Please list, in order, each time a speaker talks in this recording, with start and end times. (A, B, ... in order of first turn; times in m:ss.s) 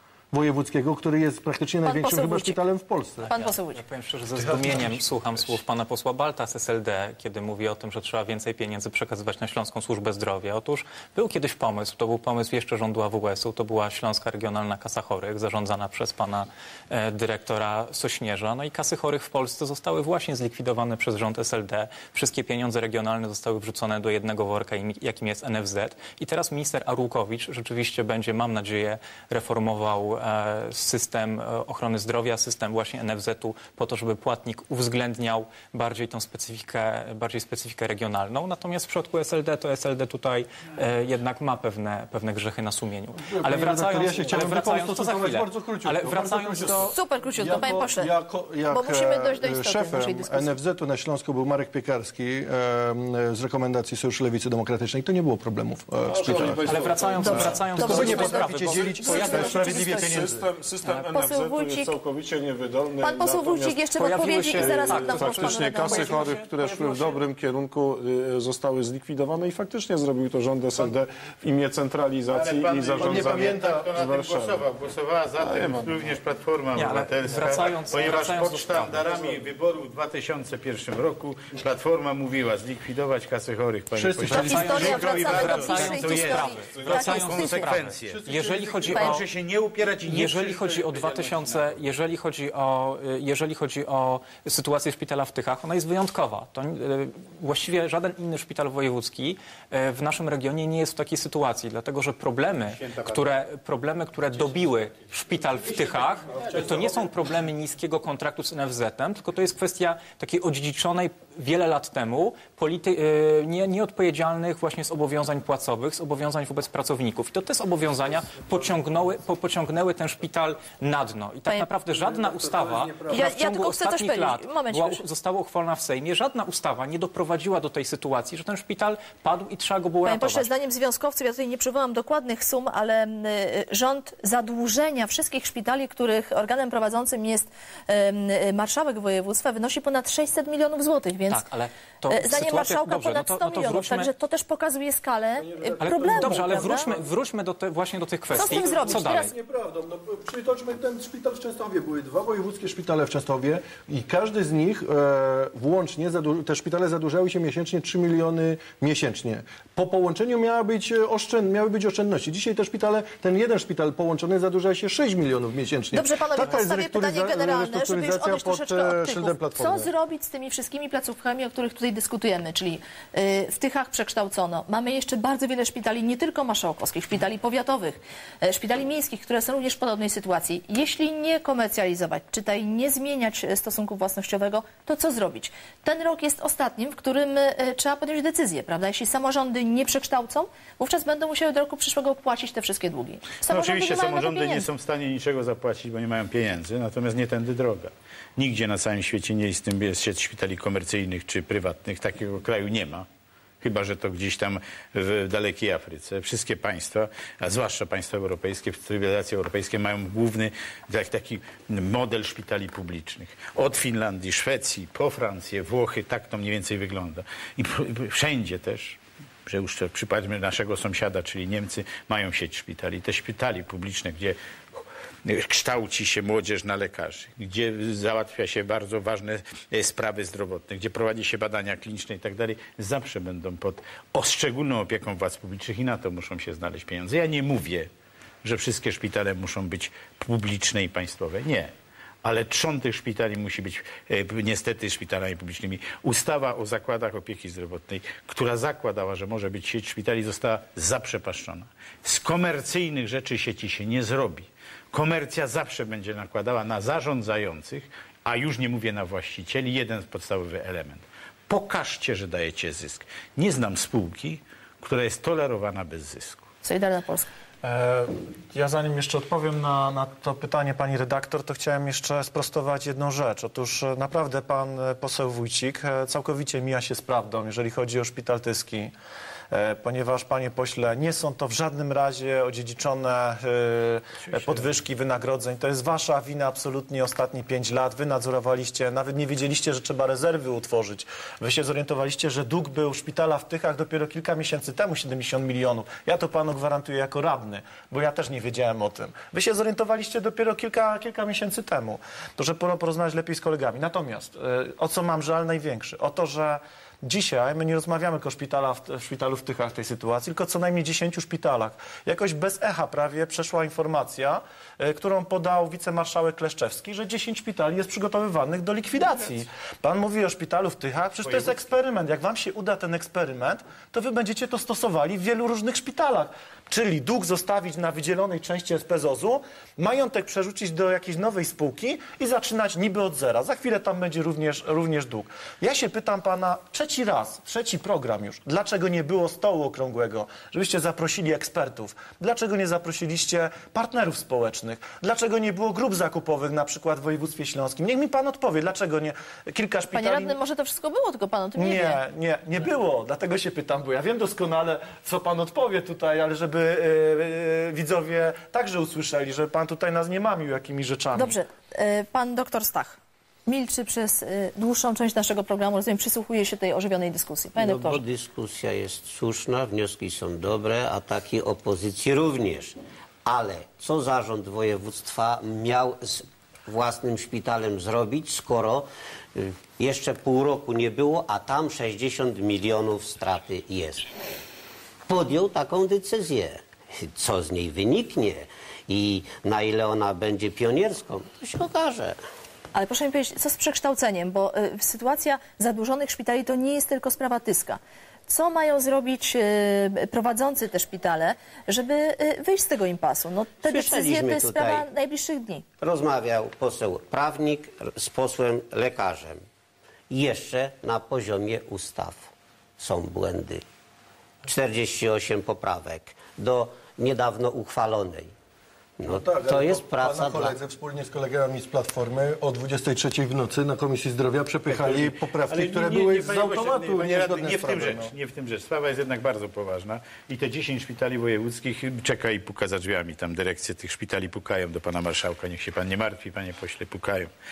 0:00.3-0:03.3 A
0:01.8-0:02.6 B
0:03.3-0:03.8 B
0:03.3-0:46.9 C
0:43.3-1:00.4 A
0:46.9-0:48.1 B
0:48.7-0:50.6 B
0:56.0-1:14.6 D
0:56.4-0:59.8 C
0:57.1-1:00.2 B
1:00.8-1:02.0 B
1:03.0-1:06.4 B
1:03.9-1:07.2 C
1:12.3-1:28.3 E
1:15.4-1:15.9 D
1:16.7-1:18.8 C
1:18.7-1:19.4 D
1:23.9-1:25.2 A
1:24.2-1:29.2 C
1:24.4-1:27.7 B
1:28.0-1:29.1 A
1:28.9-1:31.4 E
1:30.0-2:10.5 C
1:42.8-1:43.2 E
1:44.5-1:45.0 E
2:01.8-2:03.4 D
2:03.1-2:05.0 B
2:10.0-2:21.4 B
2:21.3-2:24.1 C
2:22.1-2:26.9 B
2:25.4-2:27.1 A
2:25.8-2:29.3 C
2:28.3-2:49.9 A
2:28.3-2:29.3 B
2:45.9-3:14.7 B
3:13.4-3:23.0 E
3:23.6-3:57.9 E
3:58.4-4:01.7 E
4:02.2-4:26.4 E
4:26.6-4:27.3 B
4:27.6-4:38.9 F
4:39.5-5:50.4 F
4:44.3-4:44.7 E
5:21.2-5:21.5 E
5:49.9-5:52.0 B
5:51.6-6:01.4 F
6:01.1-6:08.0 B
6:07.6-6:24.1 G
6:25.0-6:32.2 G
6:32.7-6:45.6 B
6:43.6-6:44.9 G
6:45.8-6:49.4 G
6:50.1-6:53.6 G
6:54.4-6:58.3 G
6:59.0-7:00.6 G
6:59.1-7:08.1 A
7:04.7-7:17.3 E